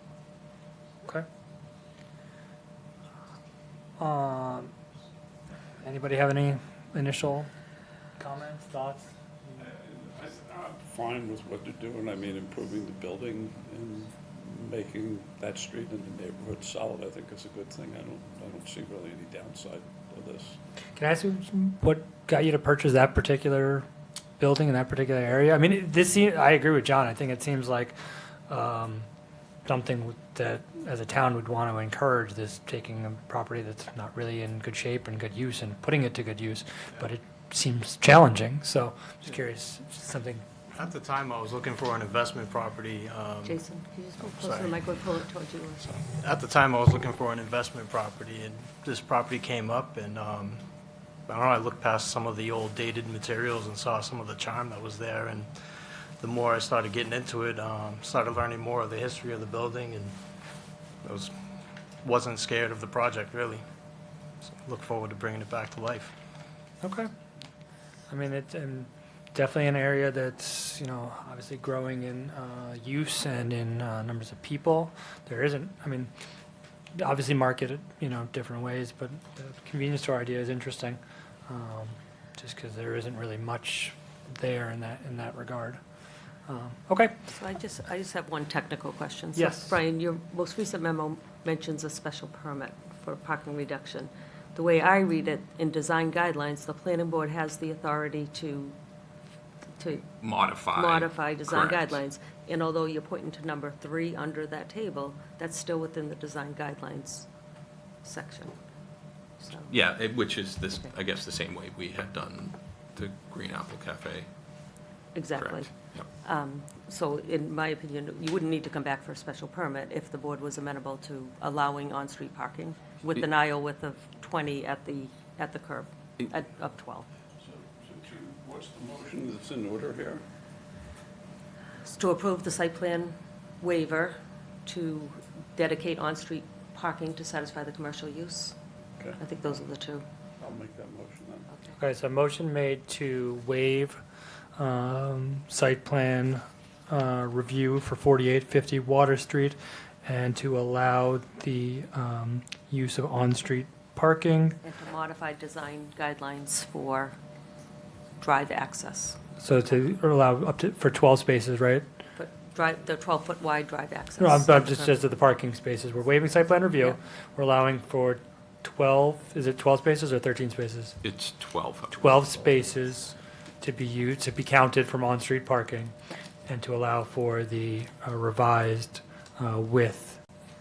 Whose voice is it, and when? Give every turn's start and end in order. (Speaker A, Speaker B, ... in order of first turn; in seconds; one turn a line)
Speaker A: 4.0-4.7
Speaker A: 5.8-7.5
Speaker A: 8.2-9.7
Speaker B: 9.9-20.5
Speaker A: 21.0-23.9
Speaker A: 24.4-28.0
Speaker A: 28.5-29.1
Speaker A: 29.7-40.4
Speaker C: 40.7-43.6
Speaker D: 43.4-45.9
Speaker C: 44.2-44.8
Speaker C: 45.9-50.6
Speaker C: 51.3-55.5
Speaker C: 56.2-60.2
Speaker C: 61.0-61.4
Speaker C: 62.0-63.6
Speaker C: 64.4-66.1
Speaker A: 66.8-67.1
Speaker A: 68.1-76.1
Speaker A: 77.0-85.8
Speaker A: 86.5-87.2
Speaker D: 87.3-98.8
Speaker A: 89.4-89.8
Speaker D: 99.8-100.2
Speaker E: 100.2-102.0
Speaker D: 100.7-107.3
Speaker D: 108.0-108.6
Speaker D: 109.4-109.7
Speaker E: 109.7-114.3
Speaker D: 115.2-115.7
Speaker E: 115.4-116.1
Speaker D: 116.2-127.1
Speaker B: 127.8-130.2
Speaker D: 131.8-138.6
Speaker D: 139.2-140.1
Speaker B: 140.4-141.4
Speaker A: 141.8-144.0
Speaker A: 144.6-154.6
Speaker D: 154.6-157.2
Speaker D: 158.2-159.2
Speaker A: 159.4-161.8
Speaker D: 162.2-165.0
Speaker A: 164.2-171.0
Speaker E: 171.0-172.2
Speaker A: 171.9-175.9
Speaker A: 176.5-180.2